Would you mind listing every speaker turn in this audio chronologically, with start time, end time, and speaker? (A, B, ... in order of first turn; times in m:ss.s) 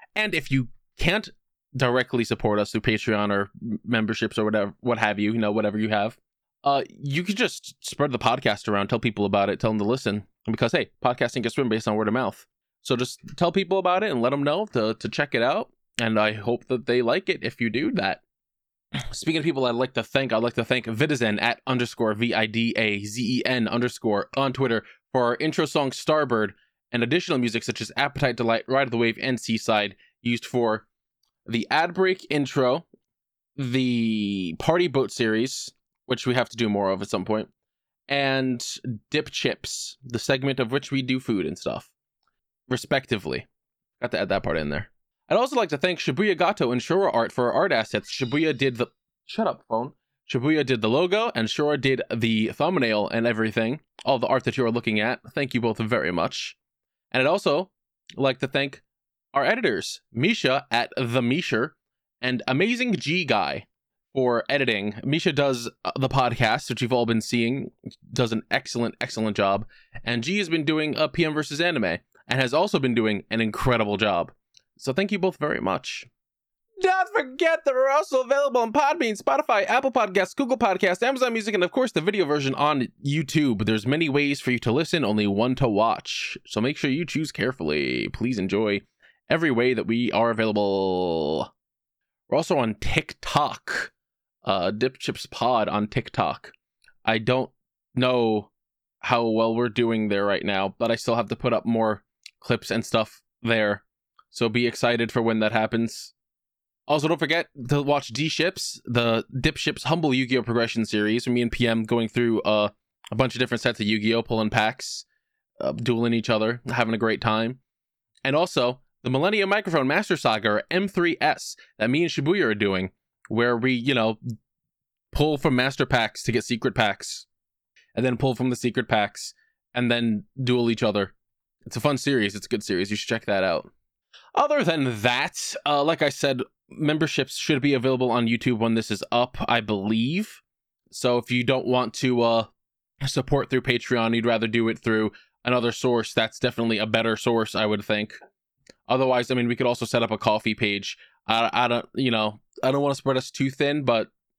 0:00.2-0:18.2 A
0:19.0-0:30.8 A
0:31.5-0:32.9 A
0:33.6-0:37.5 A
0:38.1-0:41.9 A
0:42.7-0:43.5 A
0:44.0-0:56.6 A
0:57.1-0:58.8 A
0:59.3-1:16.1 A
1:16.8-1:31.5 A
1:32.3-1:33.9 A
1:34.4-1:36.5 A
1:37.1-1:38.5 A
1:39.0-1:46.1 A
1:46.9-1:55.1 A
1:55.6-1:57.6 A
1:58.2-2:04.2 A
2:05.1-2:07.3 A
2:08.0-2:11.1 A
2:11.7-2:13.7 A
2:14.4-2:20.4 A
2:20.9-2:22.5 A
2:23.0-2:28.2 A
2:28.9-2:34.1 A